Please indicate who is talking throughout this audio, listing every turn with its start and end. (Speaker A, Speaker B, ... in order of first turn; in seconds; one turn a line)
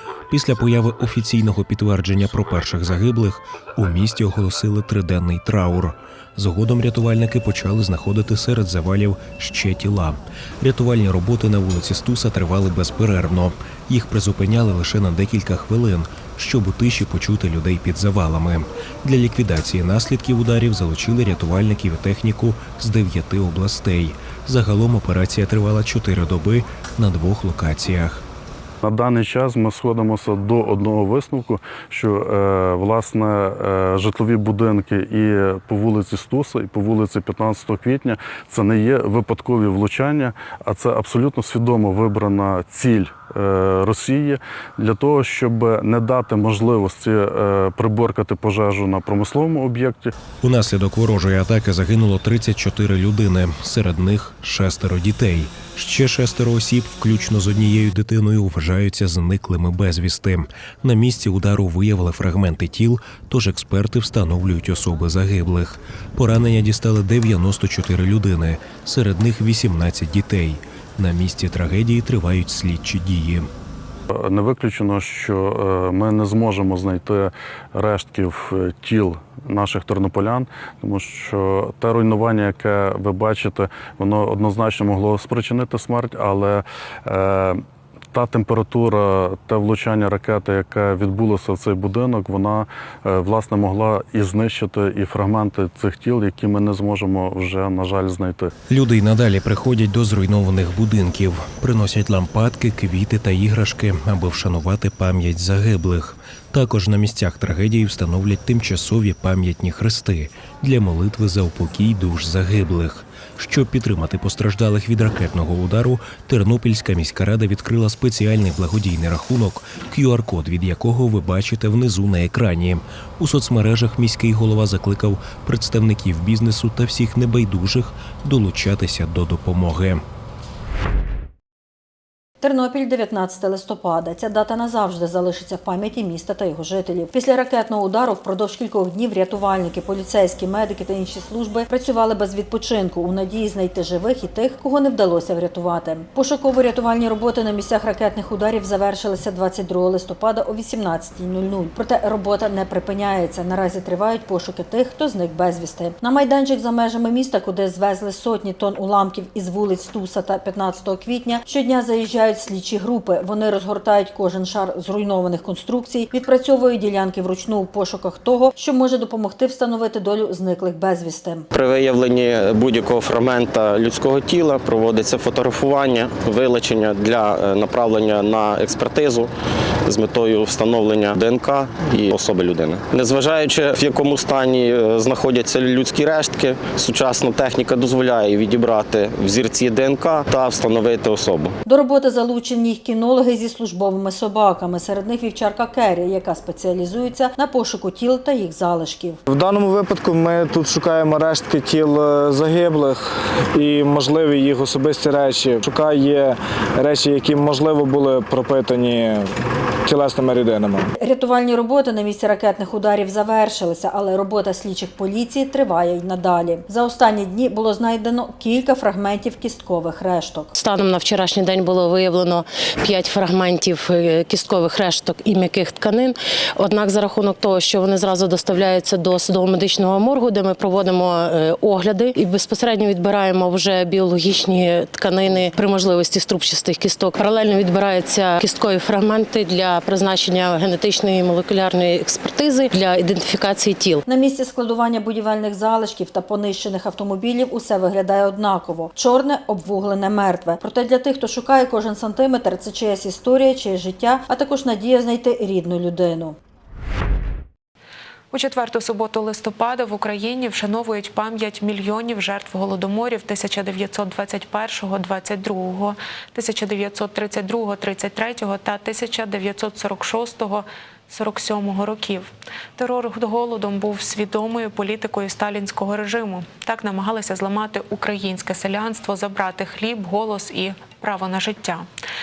Speaker A: 0.3-28.2
Speaker B: 28.8-50.1
Speaker A: 50.4-73.5
Speaker B: 74.1-98.5
Speaker A: 98.7-130.0
Speaker C: 132.4-171.4
Speaker D: 171.5-179.3
Speaker D: 179.8-191.5
Speaker C: 191.7-199.2
Speaker E: 199.4-201.8
Speaker E: 202.4-202.8
Speaker E: 204.9-205.8
Speaker C: 211.0-220.5
Speaker F: 220.5-244.0
Speaker C: 244.1-256.4
Speaker G: 258.3-281.9